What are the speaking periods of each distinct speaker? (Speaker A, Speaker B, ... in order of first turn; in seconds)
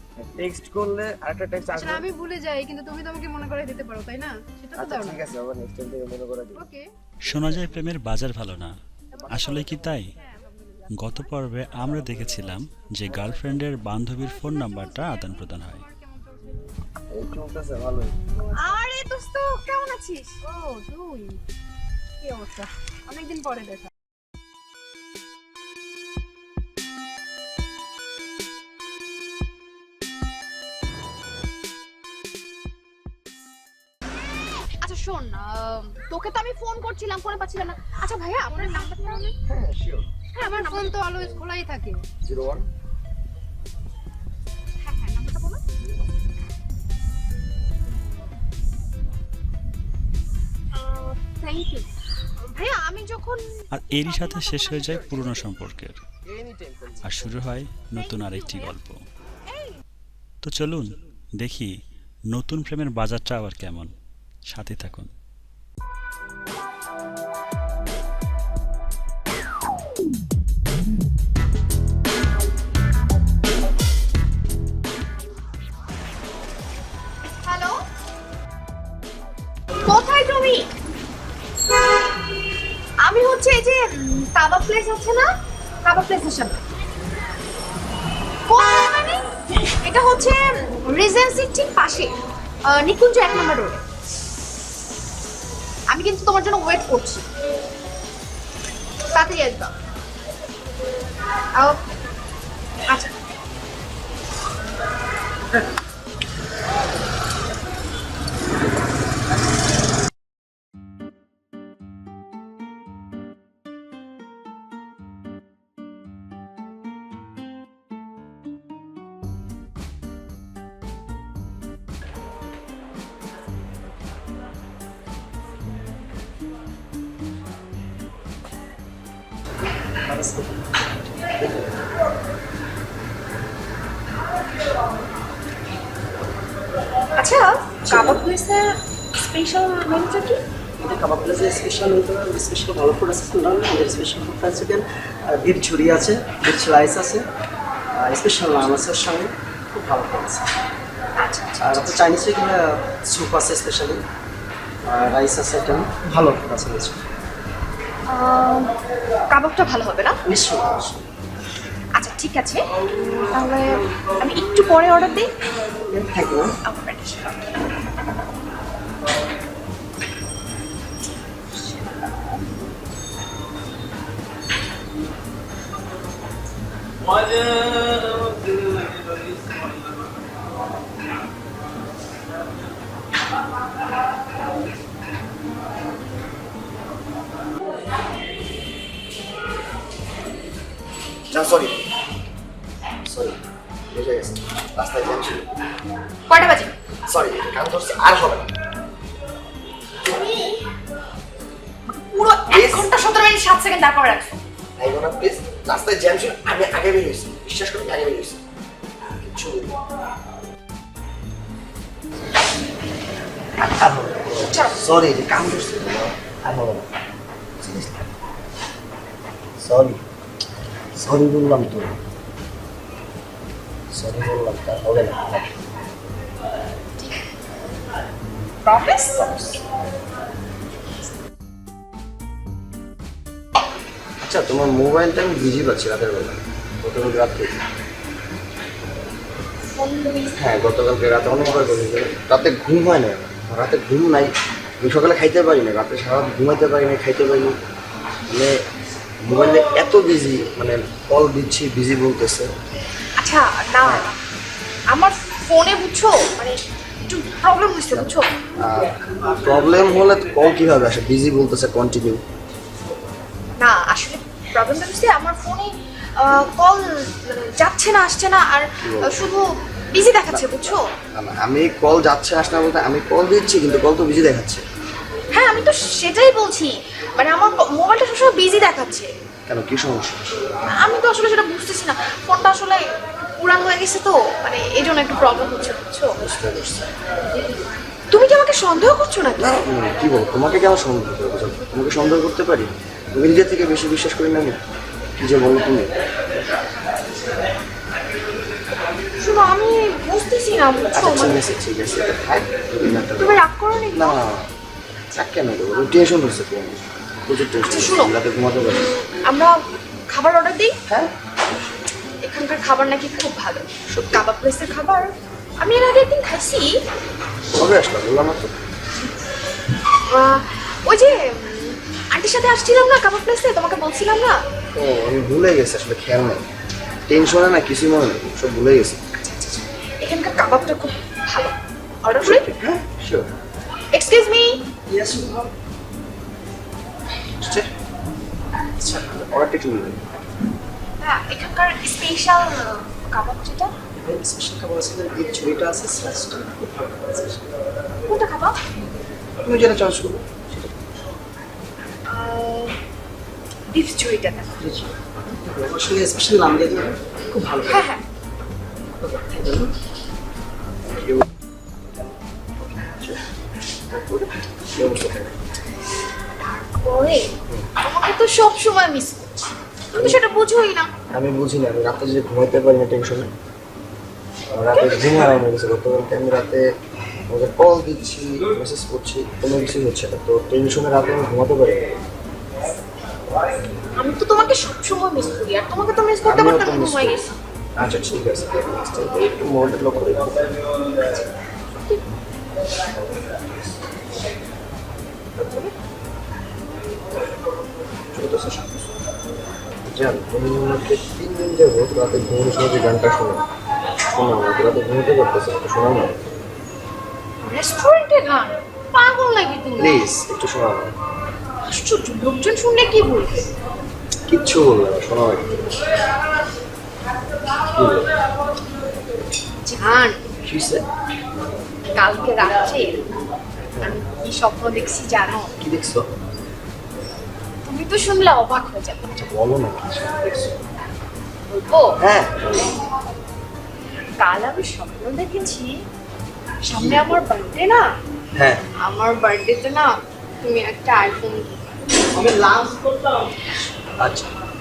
Speaker A: 0.2-2.1, 4.8-6.7, 17.1-18.2, 39.5-40.1, 42.2-42.7, 56.3-57.3, 191.3-191.8, 193.1-193.4, 193.9-195.5, 197.1-198.5, 202.5-202.9, 204.8-208.4, 209.2-209.8, 213.6-216.9, 217.6-217.9, 219.6-220.0, 221.0-222.0, 223.9-225.5, 234.2-237.6, 240.4-247.6, 248.3-248.6, 249.2-252.5, 253.8-254.1, 257.9-262.2, 268.8-269.2, 270.3-274.6, 279.5-280.2, 286.2-286.9, 289.4-294.6, 295.2-295.9, 300.9-304.5, 305.1-308.9, 313.9-314.2, 317.6-318.5, 324.8-326.4, 327.1-329.0, 332.2-333.3, 337.4-337.7, 339.3-340.0, 349.4-350.7, 360.9-361.2, 362.8-363.2, 364.7-365.3, 369.9-370.2, 371.1-373.3, 374.5-376.6, 377.3-381.8, 386.2-387.2, 387.8-390.5, 398.1-398.9, 399.9-403.4, 404.1-406.2, 409.8-410.9, 414.3-415.6, 417.7-418.1, 420.4-420.8, 423.8-424.0, 425.6-426.1, 429.1-430.5, 432.0-432.7, 436.8-437.2, 438.4-438.6, 444.0-444.3
Speaker B: 1.7-5.2, 6.5-6.8, 9.2-11.1, 14.4-16.6, 20.4-21.4, 22.2-23.9, 38.5-39.3, 40.4-42.0
Speaker C: 7.3-8.8, 9.3-10.1, 11.0-15.8, 53.7-56.0, 57.0-59.0, 60.4-60.9, 61.4-61.7, 62.3-63.9, 64.5-65.1
Speaker D: 18.6-20.4, 34.8-39.4, 40.3-41.0, 44.8-45.6, 50.7-51.9, 52.5-53.5, 54.1-55.1, 58.0-58.7, 77.4-77.8, 79.8-80.7, 83.0-85.3, 85.8-86.6, 88.5-89.3, 89.8-92.1, 92.7-93.8, 95.9-97.2, 99.1-99.7, 102.9-103.1, 137.2-140.4, 151.2-152.1, 158.1-158.8, 159.3-160.2, 161.9-162.6, 163.3-165.3, 166.6-167.5, 196.3-196.7, 200.1-200.6, 201.9-204.4, 214.4-214.8, 228.7-229.6, 239.7-240.4, 253.2-254.1, 254.9-258.3, 263.6-270.8, 275.3-279.1, 280.8-282.8, 283.4-286.1, 288.1-289.6, 299.2-301.4, 303.2-304.2, 307.7-308.1, 308.7-310.8, 312.2-316.7, 320.1-324.4, 329.2-332.4, 333.9-334.6, 341.0-343.7, 348.1-348.6, 352.1-352.8, 353.7-354.5, 357.6-358.0, 366.6-369.4, 369.9-370.9, 374.7-375.3, 384.0-387.4, 391.0-392.0, 395.4-395.7, 407.4-410.0, 411.6-413.5, 419.6-420.2, 421.9-423.0, 423.8-425.5, 427.6-429.1, 431.5-432.0, 434.2-435.7, 436.6-437.9, 438.8-441.6
Speaker E: 130.1-130.8, 137.9-138.2, 140.8-147.2, 148.0-150.4, 151.6-154.0, 154.9-157.0, 160.2-161.0, 165.9-166.5, 334.9-335.5, 338.8-339.3, 343.9-347.5, 354.6-357.9, 359.0-359.7